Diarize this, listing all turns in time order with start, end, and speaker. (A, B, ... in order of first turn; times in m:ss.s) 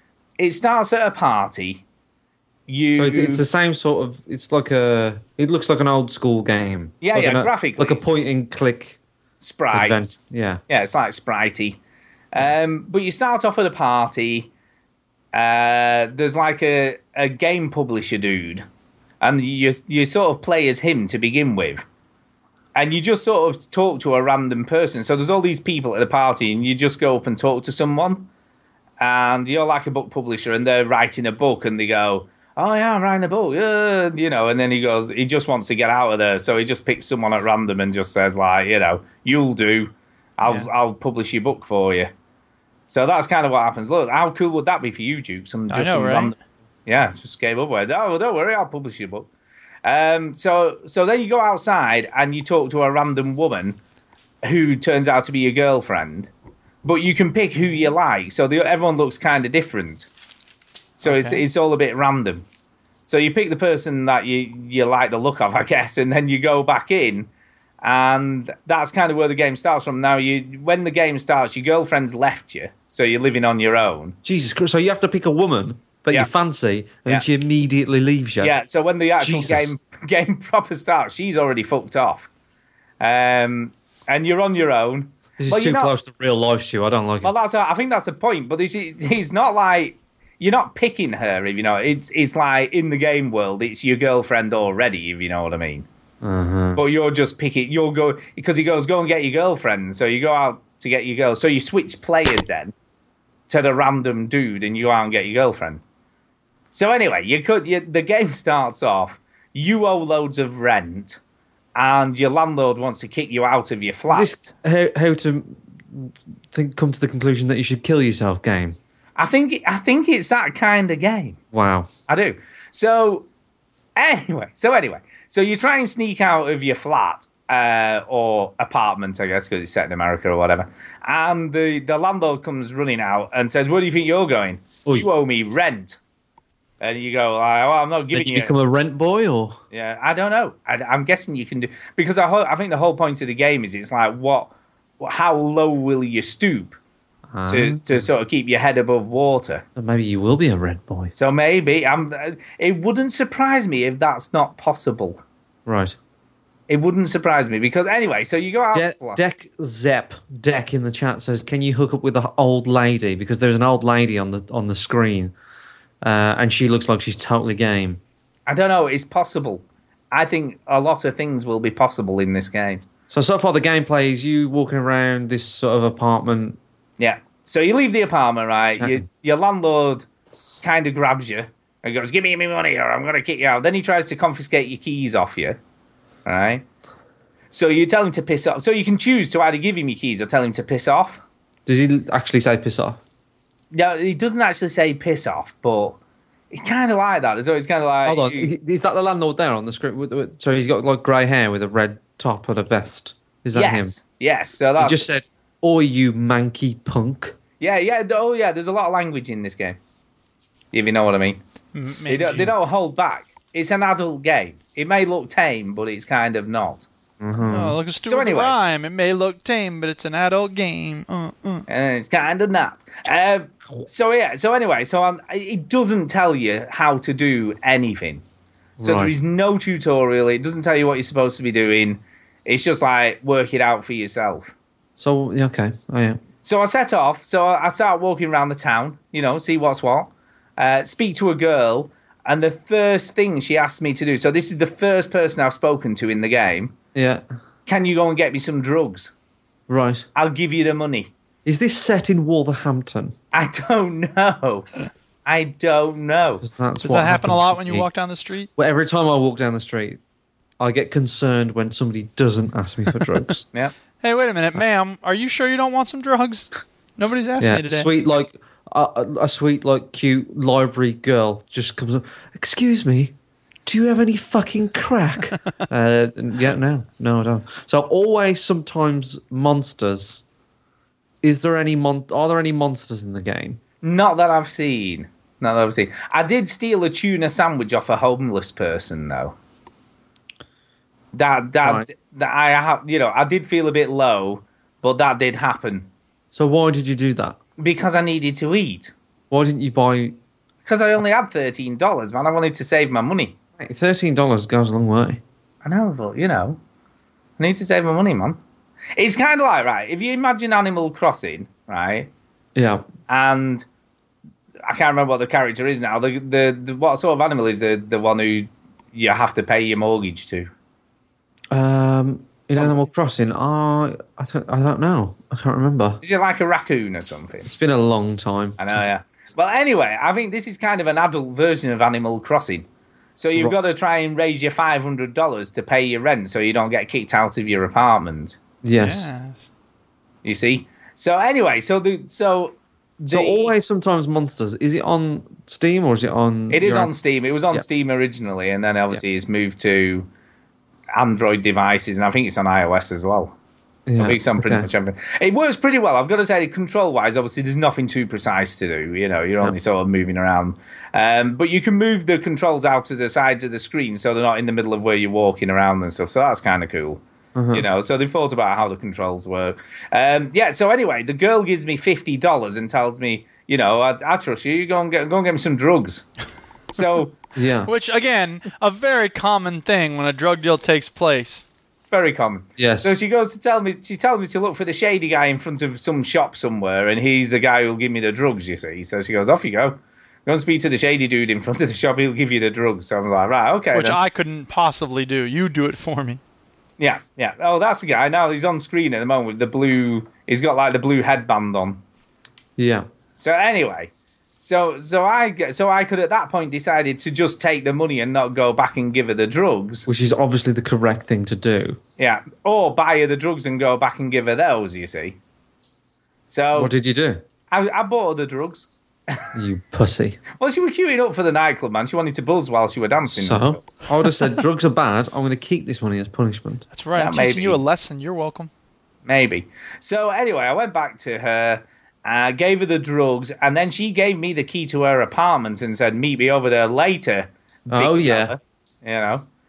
0:00.4-0:01.8 A
0:02.7-0:03.4 A
0:02.9-0:09.0 B
0:07.0-0:08.1 A
0:09.4-0:10.1 A
0:09.7-0:10.6 B
0:10.7-0:11.8 A
0:12.3-0:14.5 A
0:15.3-0:18.6 A
0:19.2-0:21.8 A
0:22.7-0:28.3 A
0:29.0-0:42.1 A
0:40.4-0:40.7 C
0:42.9-0:46.3 A
0:45.7-0:46.3 C
0:46.9-0:49.3 A
0:49.8-0:53.8 A
0:54.4-0:56.3 A
0:56.8-1:00.1 A
1:01.0-1:02.4 A
1:01.0-1:01.4 C
1:03.0-1:07.3 A
1:07.8-1:14.2 A
1:14.2-1:18.5 B
1:18.4-1:22.3 A
1:19.2-1:19.7 B
1:23.0-1:25.9 A
1:25.4-1:27.3 B
1:27.2-1:35.9 A
1:36.2-1:36.8 B
1:36.8-1:42.7 A
1:43.5-1:45.8 A
1:46.7-1:51.2 A
1:51.7-1:54.5 A
1:54.1-1:58.8 B
1:59.2-2:01.4 A
2:01.5-2:01.9 B
2:02.1-2:03.2 A
2:04.0-2:16.0 A
2:16.8-2:18.5 A
2:18.1-2:19.6 B
2:19.7-2:26.8 A
2:27.3-2:28.1 B
2:27.5-2:29.6 A
2:29.8-2:31.1 B
2:31.1-2:35.2 A
2:35.6-2:36.0 B
2:36.7-2:39.2 A
2:38.7-2:45.3 B
2:46.0-2:48.0 B
2:48.5-2:52.8 A
2:53.1-2:56.6 B
2:57.0-3:00.0 A
2:58.8-2:59.0 B
3:00.6-3:05.6 A
3:06.2-3:06.6 A
3:07.5-3:11.2 A
3:11.6-3:13.0 B
3:13.7-3:16.0 A
3:16.5-3:18.5 A
3:18.0-3:23.9 B
3:23.5-3:25.1 A
3:24.8-3:27.3 B
3:27.6-3:29.8 A
3:30.7-3:31.4 A
3:31.7-3:32.5 C
3:32.1-3:36.9 A
3:37.2-3:37.8 B
3:37.5-3:41.6 C
3:38.0-3:38.6 A
3:41.7-3:48.2 A
3:48.8-3:49.1 B
3:48.8-3:54.5 A
3:55.0-3:56.2 B
3:56.4-4:06.7 A
4:06.9-4:07.2 B
4:07.7-4:09.1 A
4:09.7-4:10.1 B
4:10.2-4:11.1 A
4:11.4-4:13.1 B
4:13.3-4:14.7 A
4:15.2-4:16.4 A
4:16.4-4:17.9 B
4:16.8-4:18.5 C
4:18.6-4:20.0 B
4:20.6-4:23.5 B
4:24.0-4:27.9 C
4:27.4-4:33.1 B
4:33.6-4:40.2 B
4:41.2-4:43.6 B
4:43.8-4:49.3 A
4:51.1-4:55.9 A
4:56.3-4:57.4 B
4:57.6-4:58.9 A
4:59.3-5:00.1 B
5:00.6-5:03.3 A
5:03.6-5:05.2 B
5:05.6-5:06.6 A
5:07.4-5:08.4 A
5:09.0-5:12.1 A
5:12.6-5:12.8 B
5:13.1-5:13.6 A
5:14.6-5:20.5 A
5:21.5-5:26.0 B
5:22.6-5:22.9 A
5:26.0-5:27.5 A
5:27.4-5:28.8 B
5:28.6-5:38.4 A
5:38.6-5:39.1 B
5:38.8-5:39.5 C
5:40.2-5:43.5 A
5:43.1-5:46.9 B
5:46.5-5:50.1 A
5:50.9-5:53.3 A
5:53.9-5:54.7 B
5:54.0-6:07.0 A
6:07.3-6:07.6 B
6:07.5-6:16.0 A
6:16.7-6:17.2 A
6:17.4-6:17.7 B
6:17.7-6:21.4 C
6:21.9-6:34.0 A
6:22.6-6:22.9 B
6:33.7-6:36.2 C
6:36.8-6:41.8 A
6:42.6-6:42.8 B
6:43.2-6:43.9 A
6:44.4-6:49.9 A
6:49.9-6:51.8 B
6:52.0-6:55.2 A
6:56.3-6:56.7 A
6:56.5-6:57.2 B
6:57.5-6:59.2 A
6:59.3-7:00.2 B
7:00.3-7:03.6 A
7:03.1-7:06.6 B
7:06.7-7:08.5 C
7:06.9-7:07.6 A
7:09.0-7:19.2 A
7:17.7-7:18.3 B